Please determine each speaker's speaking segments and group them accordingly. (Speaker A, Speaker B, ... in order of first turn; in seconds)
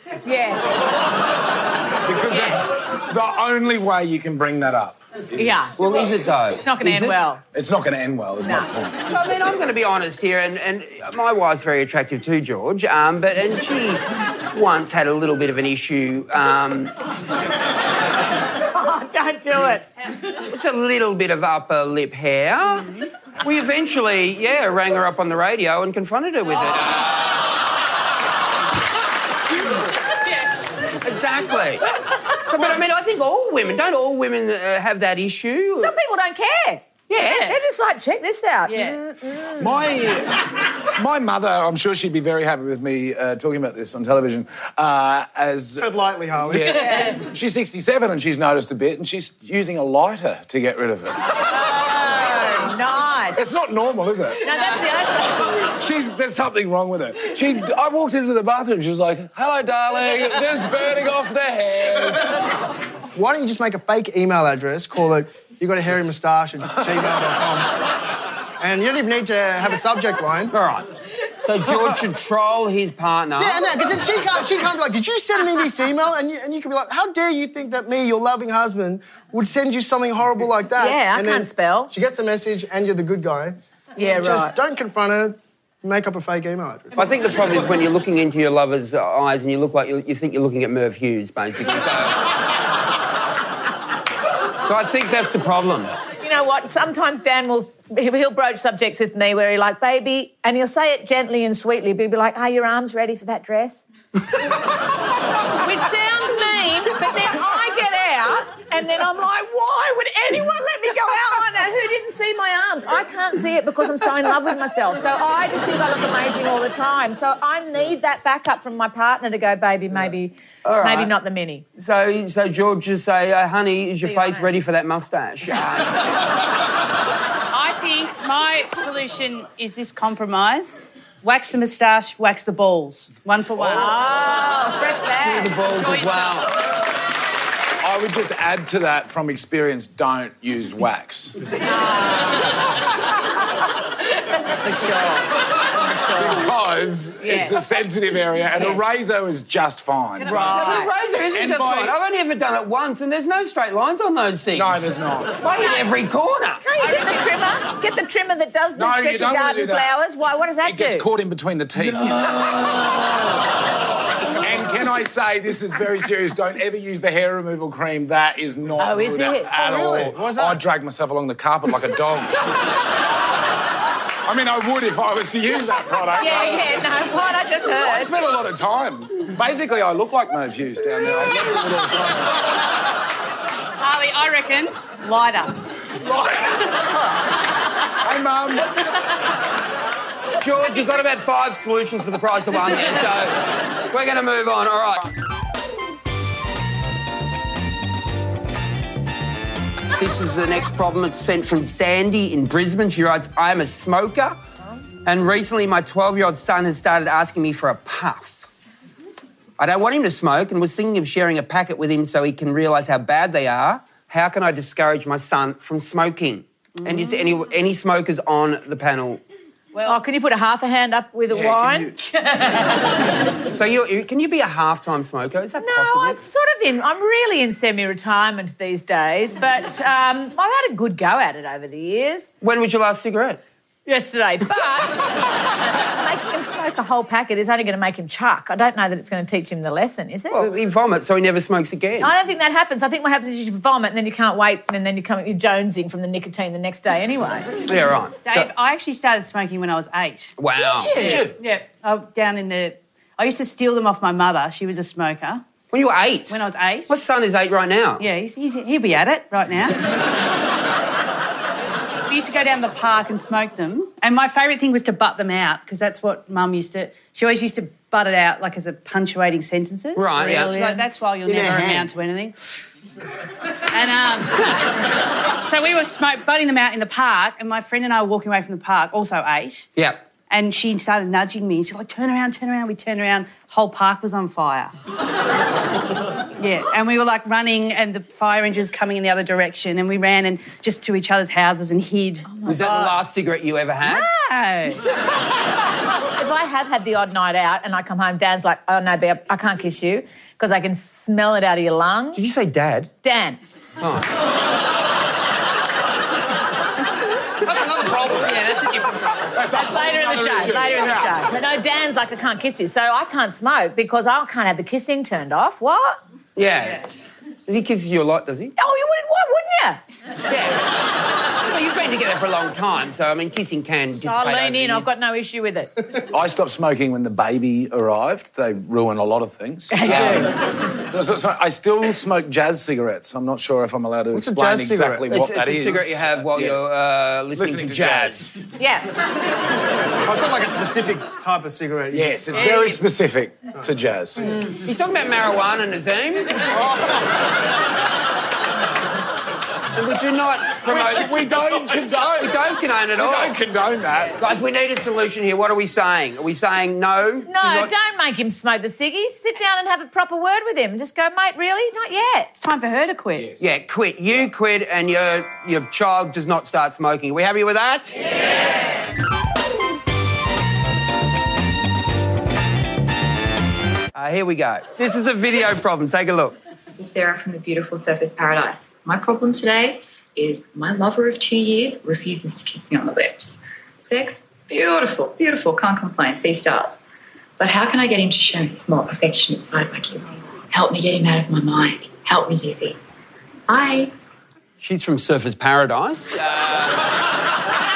Speaker A: 0.2-0.7, 5.3-5.8, 6.6-7.4, 8.4-8.7, 18.7-19.9, 35.8-39.8, 46.8-47.2, 51.5-53.4, 54.4-55.7, 80.8-81.9, 84.0-84.5, 96.2-103.8, 105.6-121.7, 124.0-124.5, 133.7-135.5, 141.8-142.2, 144.6-145.3, 145.8-146.5, 147.2-147.6, 150.3-150.9, 155.6-155.9, 156.6-161.1, 168.8-169.5, 176.2-178.1, 219.9-221.9, 225.6-232.3, 233.9-235.1, 235.9-240.5, 242.0-247.5, 292.3-293.0, 296.2-302.2, 303.0-303.4, 309.5-316.0, 318.6-319.8, 324.1-325.7, 329.7-330.3, 338.6-338.9, 357.3-362.4
Speaker B: 2.0-5.7, 6.8-9.1, 39.6-45.9, 46.5-51.3, 53.3-54.5, 55.8-62.4, 137.8-141.3, 146.2-150.5, 151.3-152.0, 154.5-155.4, 158.8-159.9, 160.6-162.8, 164.4-172.3, 174.3-176.9, 177.8-182.4, 186.0-186.7, 188.0-188.7, 221.3-222.0, 251.0-251.3, 309.3-311.3, 326.1-336.6, 337.3-338.4, 341.9-344.3, 350.6-352.4, 352.9-354.2
Speaker C: 5.8-6.6, 9.1-16.9, 20.4-27.4, 31.0-31.9, 32.4-35.9, 37.1-37.6, 70.5-70.9, 71.4-73.7, 87.0-92.2, 94.6-95.9, 120.7-121.1, 121.8-126.0, 135.2-136.5, 150.5-156.6, 190.4-195.1, 199.9-204.4, 205.1-208.5, 209.6-219.2, 223.5-226.2, 232.4-233.4, 240.3-242.1, 247.7-248.5, 250.4-251.2, 255.7-258.1, 269.9-270.9, 279.8-280.1, 292.5-294.1, 302.1-302.9, 303.8-304.1, 316.4-316.9, 317.5-318.6, 320.3-320.6, 321.4-324.9, 335.1-338.4, 344.6-346.4, 349.7-353.4, 354.2-357.7, 363.4-368.0, 373.9-376.4, 394.6-396.9
Speaker D: 38.7-39.0, 127.5-134.0, 135.7-136.4, 150.2-150.5, 183.8-185.6, 219.7-220.0, 222.1-222.9, 248.2-255.4, 256.3-256.9, 258.0-259.9, 262.1-272.6, 273.7-274.6, 275.4-279.7, 280.3-284.7, 286.4-292.3, 293.8-294.8, 308.2-309.4, 342.4-342.8, 362.4-363.3
Speaker E: 45.8-46.8, 63.1-67.7, 68.6-70.5, 73.4-87.0, 169.5-170.6, 271.3-271.9, 307.4-308.4, 334.1-335.1, 340.0-342.4, 346.5-347.1
Speaker F: 376.7-386.8, 387.4-392.8, 393.5-393.9